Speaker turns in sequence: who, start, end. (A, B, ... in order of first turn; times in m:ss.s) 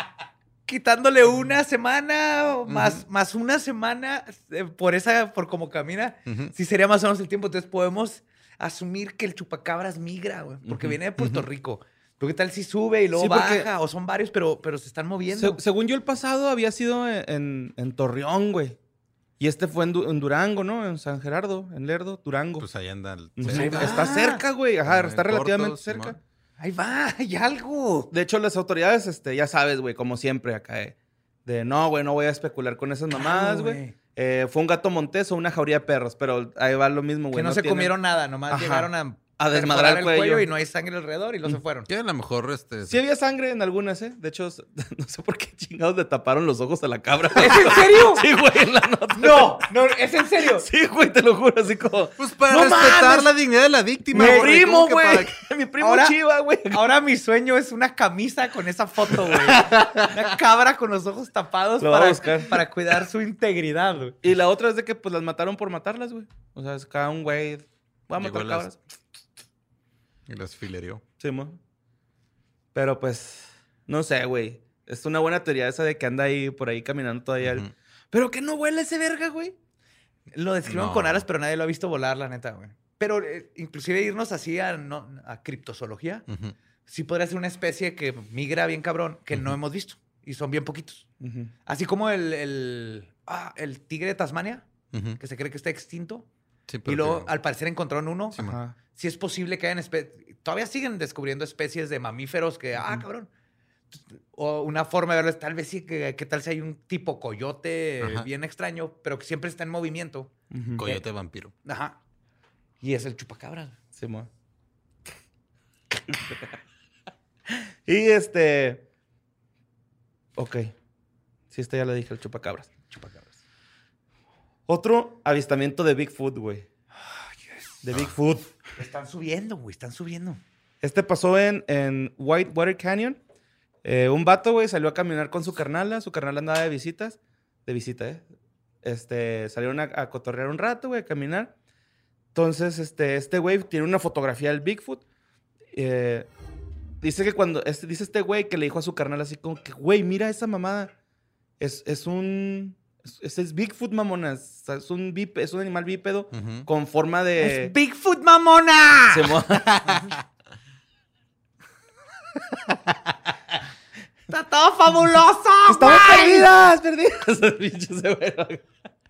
0:00.7-0:15.6 A
0:02.7-0:03.0 B
0:06.3-0:06.5 B
0:11.2-0:11.4 B
0:13.1-0:13.7 C
0:15.3-0:18.8 C
0:19.4-0:22.7 C
0:22.6-0:24.2 B
0:23.4-0:26.2 C
0:23.5-0:24.4 A
0:24.8-0:26.2 B
0:26.6-0:28.1 A
0:28.1-0:37.9 C
0:33.1-0:33.9 A
0:37.3-0:41.9 A
0:38.5-0:40.5 C
0:41.9-0:43.0 B
0:42.8-0:49.6 C
0:47.4-0:48.2 A
0:49.1-0:50.6 A
0:50.5-0:53.1 C
0:52.2-0:55.4 B
0:52.9-0:53.2 A
0:54.1-0:56.8 C
0:54.2-0:54.4 A
0:55.8-0:56.2 A
0:56.7-1:04.2 A
0:59.4-1:00.1 B
1:01.8-1:02.6 C
1:04.2-1:08.8 C
1:08.2-1:08.7 B
1:10.3-1:11.0 B
1:11.2-1:11.6 C
1:12.7-1:19.5 C
1:17.4-1:17.7 B
1:20.3-1:26.2 A
1:20.6-1:21.2 B
1:26.3-1:26.6 B
1:26.9-1:31.0 A
1:31.2-1:31.5 C
1:31.6-1:34.6 A
1:34.9-1:35.2 B
1:35.2-1:36.2 A
1:36.7-1:37.3 B
1:36.8-1:43.3 A
1:38.4-1:38.7 C
1:43.9-1:50.3 A
1:48.0-1:48.3 B
1:50.5-1:50.8 C
1:50.8-1:51.5 B
1:51.6-1:52.0 A
1:52.8-1:53.7 A
1:54.0-1:54.3 C
1:56.1-1:56.4 C
1:57.5-1:58.8 C
2:00.3-2:00.7 C
2:01.5-2:02.7 C
2:02.9-2:03.4 A
2:04.7-2:06.7 C
2:07.0-2:07.8 A
2:07.8-2:08.5 C
2:08.8-2:10.4 A
2:10.8-2:13.2 C
2:13.8-2:18.3 C
2:18.8-2:21.5 C
2:22.3-2:25.0 C
2:25.7-2:26.3 C
2:27.0-2:30.9 C
2:31.6-2:37.7 C
2:36.3-2:36.7 B
2:37.4-2:39.3 A
2:39.1-2:40.0 C
2:39.7-2:40.0 B
2:44.3-2:46.4 A
2:45.7-2:48.7 C